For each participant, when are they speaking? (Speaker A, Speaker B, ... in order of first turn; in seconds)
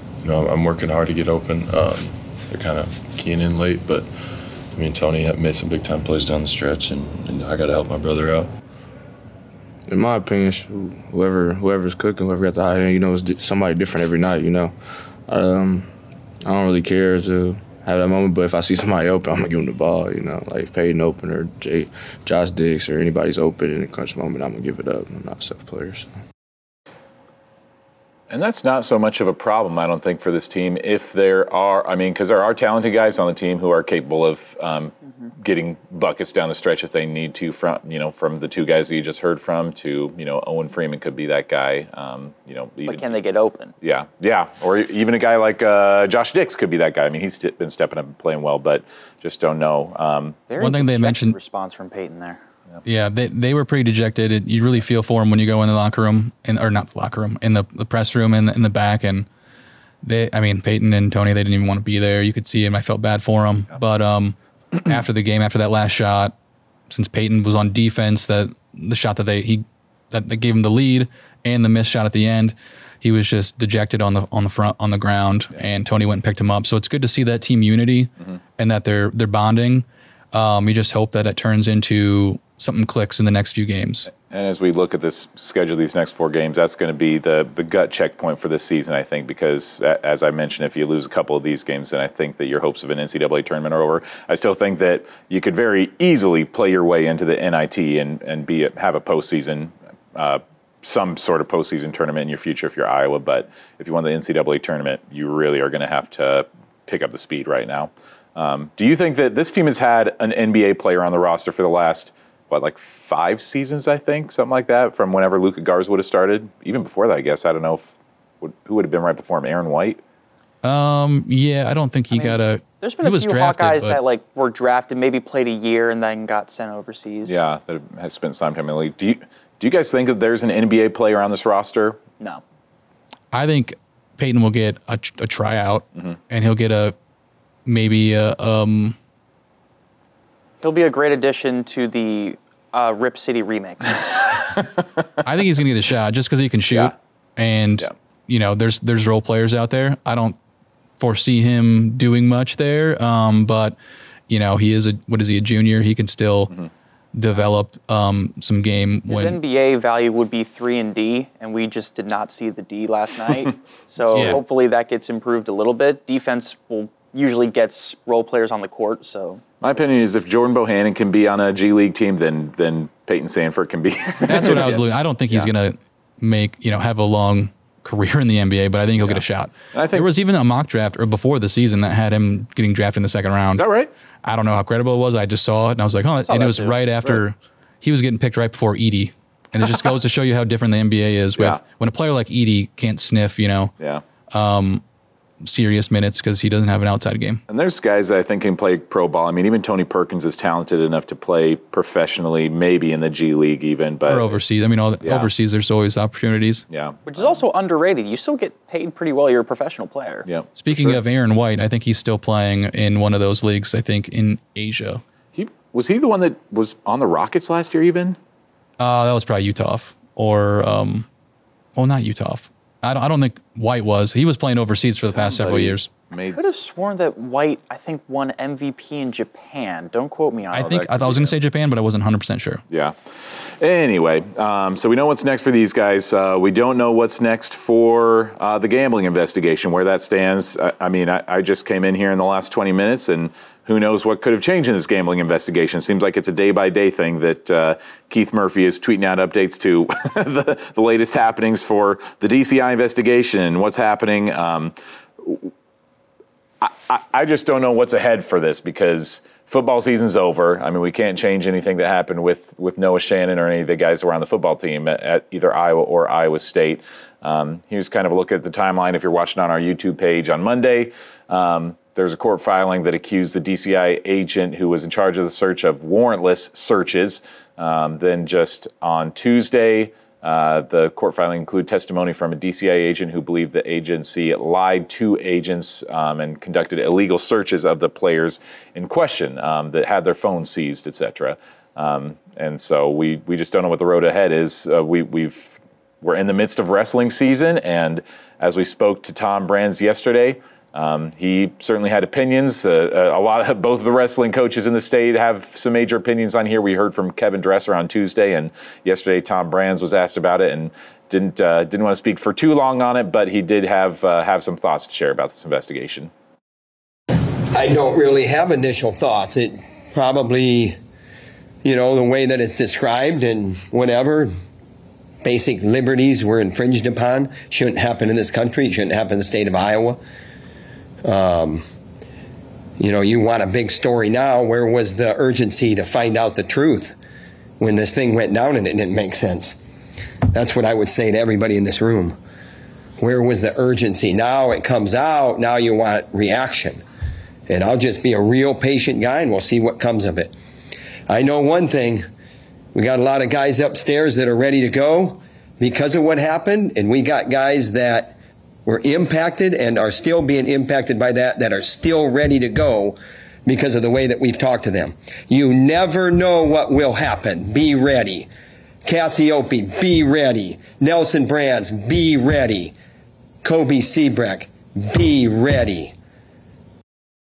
Speaker A: 0.2-8.5
Speaker B: 9.9-14.8, 15.3-15.9, 16.4-26.1
Speaker C: 28.3-43.2, 43.8-50.4, 84.1-120.0, 127.3-132.0, 164.1-164.4, 169.6-175.5, 179.0-180.1, 183.6-183.9, 191.4-191.6, 197.5-204.4, 205.0-205.3, 206.7-207.3, 210.3-211.0, 215.3-218.2, 224.9-226.6, 230.6-231.3, 232.7-255.5, 256.6-316.1
Speaker D: 42.9-43.7, 50.5-52.4, 122.1-127.3, 140.6-144.3, 159.1-169.4, 186.2-186.8, 207.1-210.3, 226.3-231.0
Speaker E: 50.6-51.4, 52.9-59.3, 60.0-66.3, 66.9-84.1, 120.6-124.0, 133.3-137.0, 137.7-139.0, 145.2-150.4, 151.0-153.8, 154.3-156.5, 157.1-159.4, 164.1-164.4, 174.3-183.7, 184.2-193.7, 194.3-194.8, 195.4-197.4, 204.1-206.7, 210.6-215.0, 218.8-221.1, 221.8-225.9, 230.5-232.6
Speaker F: 317.5-320.8, 321.6-324.3, 325.2-330.0, 331.0-331.6, 332.8-337.0, 337.6-339.6, 340.3-342.2, 343.0-346.8, 347.5-350.4, 351.1-352.1, 352.7-368.3, 368.9-372.8, 373.4-375.9